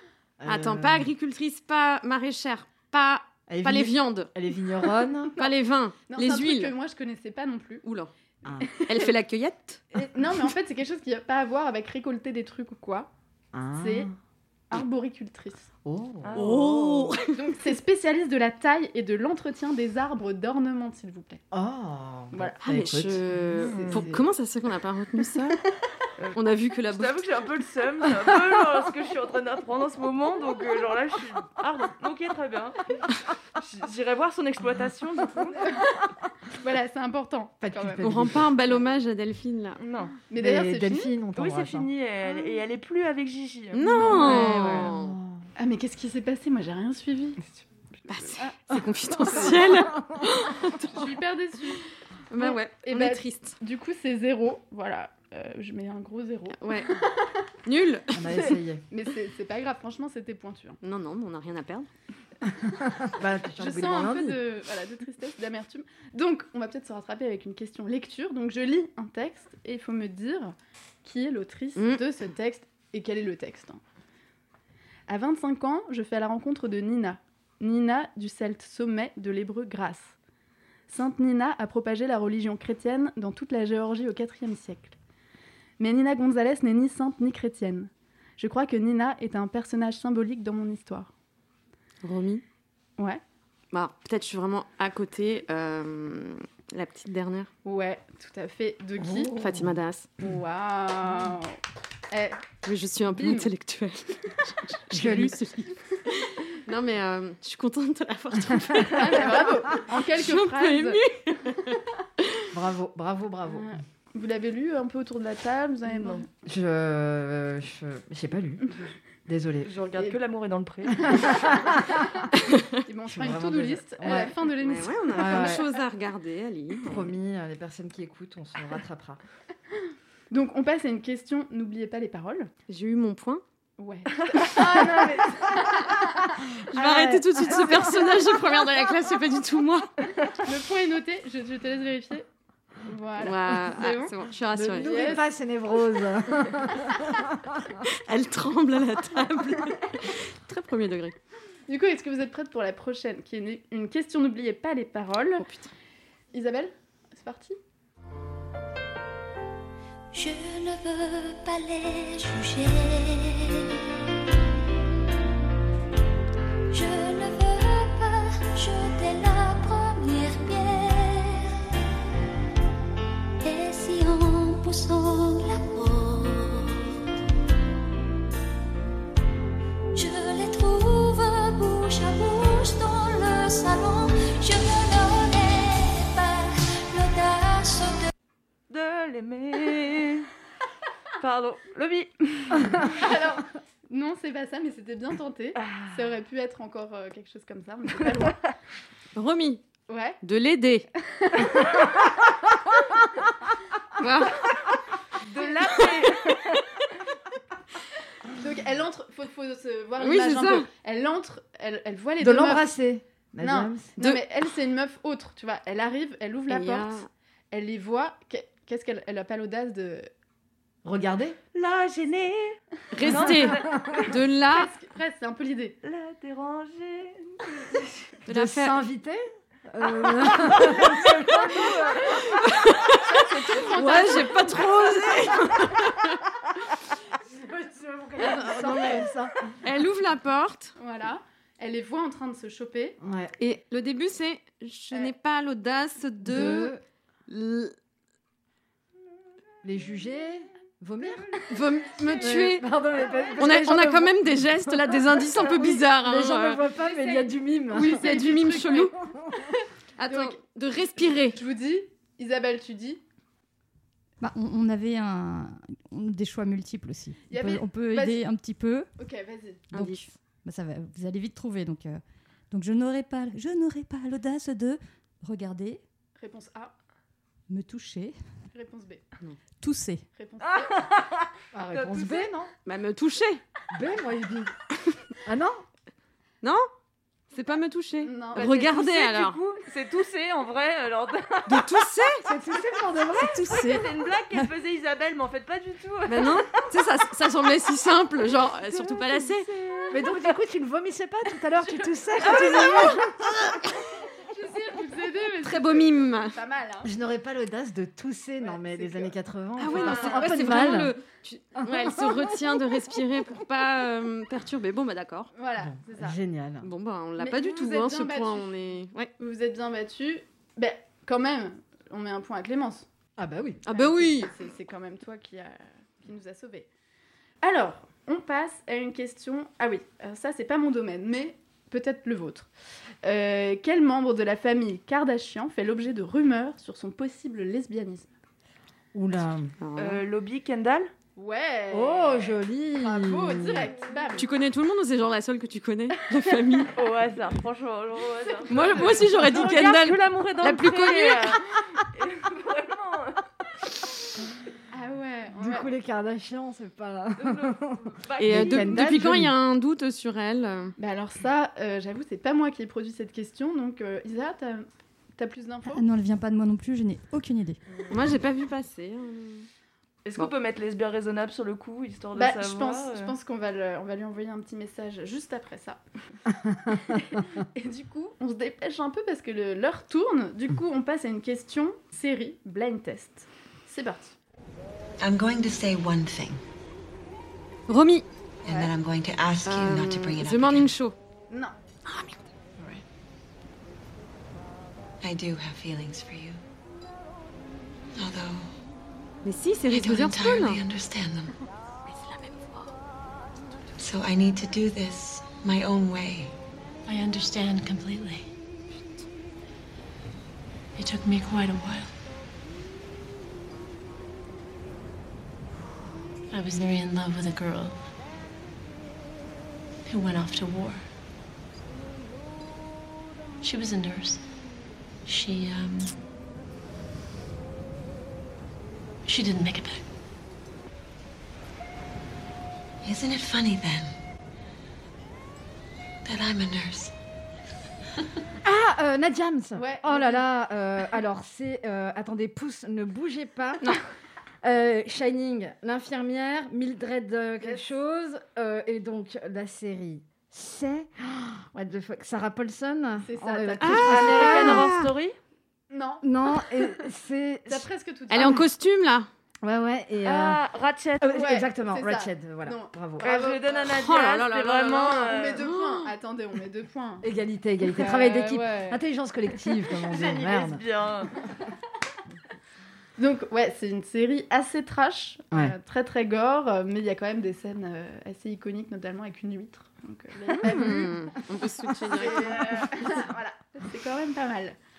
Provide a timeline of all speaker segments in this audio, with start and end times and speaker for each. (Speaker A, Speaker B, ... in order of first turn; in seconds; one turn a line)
Speaker A: 0.4-1.1
Speaker B: 0.5-4.3
Speaker A: 3.5-5.4
Speaker B: 5.4-6.7
Speaker C: 6.1-7.8
Speaker B: 7.8-8.1
Speaker B: 8.8-9.8
Speaker C: 10.0-13.1
Speaker A: 13.5-14.1
Speaker C: 13.8-14.1
Speaker C: 14.7-15.7
Speaker A: 15.8-17.1
Speaker D: 16.2-17.2
Speaker B: 16.4-17.4
Speaker C: 17.3-21.4
Speaker A: 21.5-24.2
Speaker B: 22.6-25.6
Speaker D: 26.2-32.8
Speaker B: 26.3-27.3
Speaker D: 33.6-35.8
Speaker C: 36.6-38.3
Speaker A: 37.6-38.5
Speaker B: 38.0-39.8
Speaker D: 39.8-40.2
Speaker C: 40.3-41.1
Speaker A: 40.4-41.9
Speaker D: 41.4-44.9
Speaker B: 43.7-45.2
Speaker C: 44.1-44.6
Speaker A: 44.2-45.4
Speaker C: 45.6-47.4
Speaker B: 48.1-50.9
Speaker A: 48.7-50.1
Speaker C: 49.3-49.7
Speaker C: 50.9-51.9
Speaker B: 52.3-53.6
Speaker C: 52.4-57.1
Speaker B: 56.6-56.9
Speaker B: 57.6-58.2
Speaker A: 58.1-58.8
Speaker C: 58.3-60.8
Speaker B: 60.8-61.9
Speaker A: 62.8-64.4
Speaker C: 63.6-73.8
Speaker B: 71.8-72.0
Speaker C: 75.1-80.2
Speaker C: 80.9-85.0
Speaker C: 85.8-91.1
Speaker B: 92.0-92.4
Speaker B: 93.7-97.5
Speaker C: 97.7-99.3
Speaker A: 99.0-99.7
Speaker B: 99.3-100.1
Speaker C: 100.2-101.6
Speaker C: 102.1-102.4
Speaker B: 102.6-112.4
Speaker C: 103.2-103.5
Speaker A: 104.9-105.4
Speaker C: 108.9-111.0
Speaker A: 112.5-113.7
Speaker C: 113.5-116.3
Speaker D: 115.9-116.2
Speaker A: 116.4-118.7
Speaker A: 119.3-119.7
Speaker D: 119.6-121.7
Speaker A: 121.1-121.9
Speaker C: 122.9-125.6
Speaker A: 123.1-124.3
Speaker B: 124.6-127.2
Speaker A: 125.1-125.7
Speaker A: 126.8-129.2
Speaker C: 130.3-132.5
Speaker B: 132.7-133.4
Speaker C: 133.8-137.2
Speaker D: 134.3-135.3
Speaker B: 136.7-139.9
Speaker C: 140.3-142.3
Speaker C: 142.9-144.1
Speaker B: 143.2-145.2
Speaker A: 144.5-147.6
Speaker C: 144.7-145.2
Speaker B: 147.9-151.2
Speaker C: 151.7-155.5
Speaker B: 155.4-155.7
Speaker C: 156.3-157.6
Speaker E: 160.1-163.8
Speaker E: 166.7-171.6
Speaker E: 173.4-177.0
Speaker E: 179.9-188.1
Speaker D: 188.7-190.3
Speaker D: 191.2-193.1
Speaker C: 192.8-198.4
Speaker D: 195.6-196.0
Speaker B: 199.2-199.6
Speaker C: 199.9-200.2
Speaker B: 200.2-200.9
Speaker C: 201.1-201.7
Speaker B: 204.0-204.4
Speaker D: 205.2-206.5
Speaker C: 208.3-212.7
Speaker B: 210.0-210.7
Speaker A: 212.2-213.9
Speaker C: 213.4-220.1
Speaker B: 216.5-217.1
Speaker A: 220.8-221.4
Speaker D: 221.5-224.1
Speaker B: 222.9-224.7
Speaker A: 223.0-224.2
Speaker C: 224.5-225.8
Speaker D: 225.8-227.9
Speaker B: 228.3-228.8
Speaker A: 228.3-232.2
Speaker D: 230.6-231.7
Speaker B: 232.5-233.0
Speaker C: 233.1-234.5
Speaker B: 233.6-236.2
Speaker A: 237.2-239.4
Speaker B: 238.2-239.1
Speaker B: 239.6-240.8
Speaker C: 240.8-243.0
Speaker A: 243.0-243.3
Speaker B: 243.4-246.8
Speaker A: 246.2-246.8
Speaker B: 247.3-247.7
Speaker A: 249.6-251.5
Speaker B: 251.5-252.7
Speaker A: 252.2-258.3
Speaker B: 253.4-256.6
Speaker C: 256.8-258.9
Speaker B: 257.8-258.9
Speaker A: 258.9-259.5
Speaker B: 260.0-261.4
Speaker C: 260.1-260.4
Speaker C: 261.2-263.0
Speaker F: 264.2-268.9
Speaker C: 267.3-268.2
Speaker C: 269.0-269.7
Speaker B: 269.7-270.0
Speaker F: 269.7-272.0
Speaker F: 272.5-275.8
Speaker C: 276.2-276.7
Speaker F: 277.5-278.2
Speaker C: 278.5-279.1
Speaker F: 279.6-280.1
Speaker C: 280.1-280.8
Speaker D: 280.6-281.0
Speaker A: 281.5-282.5
Speaker D: 281.7-282.3
Speaker B: 282.6-283.4
Speaker A: 283.7-284.5
Speaker A: 285.2-285.6
Speaker B: 286.4-286.7
Speaker B: 287.3-289.4
Speaker C: 288.0-288.5
Speaker D: 288.4-291.8
Speaker B: 291.5-292.2
Speaker A: 292.2-293.4
Speaker F: 293.3-293.8
Speaker D: 293.4-296.5
Speaker B: 296.1-299.5
Speaker D: 298.7-300.0
Speaker A: 299.9-303.3
Speaker C: 304.1-306.9
Speaker B: 305.4-306.4
Speaker A: 306.8-311.0
Speaker C: 308.4-309.1
Speaker B: 309.6-315.3
Speaker C: 309.8-310.4
Speaker A: 311.6-312.2
Speaker C: 315.3-316.2
Speaker A: 315.6-316.7
Speaker B: 316.6-319.1
Speaker C: 317.2-318.6
Speaker C: 319.2-322.9
Speaker A: 323.2-323.6
Speaker B: 323.7-324.3
Speaker C: 323.7-326.7
Speaker C: 327.4-332.5
Speaker C: 333.0-338.1
Speaker A: 338.9-339.6
Speaker B: 339.6-340.0
Speaker D: 339.8-340.9
Speaker C: 341.2-344.3
Speaker A: 341.7-343.7
Speaker B: 344.2-346.7
Speaker D: 346.8-353.2
Speaker C: 348.3-348.9
Speaker B: 348.5-351.4
Speaker C: 354.7-355.7
Speaker A: 355.4-359.4
Speaker D: 357.2-358.9
Speaker B: 358.2-360.8
Speaker C: 360.8-365.9
Speaker F: 365.7-367.6
Speaker B: 367.9-369.5
Speaker D: 370.1-373.1
Speaker C: 372.2-375.8
Speaker C: 376.7-384.1
Speaker G: 385.0-386.4
Speaker B: 387.7-388.1
Speaker G: 388.4-390.8
Speaker B: 389.4-391.0
Speaker B: 391.9-392.1
Speaker G: 395.0-396.4
Speaker G: 397.9-398.5
Speaker B: 399.2-400.6
Speaker G: 399.7-401.3
Speaker B: 401.9-402.7
Speaker G: 403.8-406.3
Speaker H: 406.9-408.3
Speaker H: 410.8-411.9
Speaker H: 416.3-417.9
Speaker H: 419.9-420.9
Speaker H: 423.4-424.3
Speaker H: 425.1-425.9
Speaker H: 429.1-429.8
Speaker G: 432.8-433.9
Speaker G: 436.0-436.9
Speaker A: 438.4-443.8
Speaker C: 439.6-440.3
Speaker A: 444.4-454.7
Speaker C: 453.0-454.0
Speaker B: 453.6-454.9
Speaker D: 453.7-455.2
Speaker C: 455.7-456.8
Speaker A: 456.0-457.7
Speaker C: 457.5-458.4
Speaker B: 458.1-459.1
Speaker A: 459.4-460.4
Speaker D: 460.0-461.1
Speaker A: 461.0-463.1
Speaker C: 461.1-463.6
Speaker D: 463.0-465.5
Speaker B: 463.6-465.8
Speaker C: 464.7-467.1
Speaker A: 467.0-470.6
Speaker C: 467.7-468.8
Speaker D: 469.8-471.1
Speaker C: 473.0-481.0
Speaker A: 480.3-480.9
Speaker B: 480.4-482.6
Speaker C: 481.9-484.6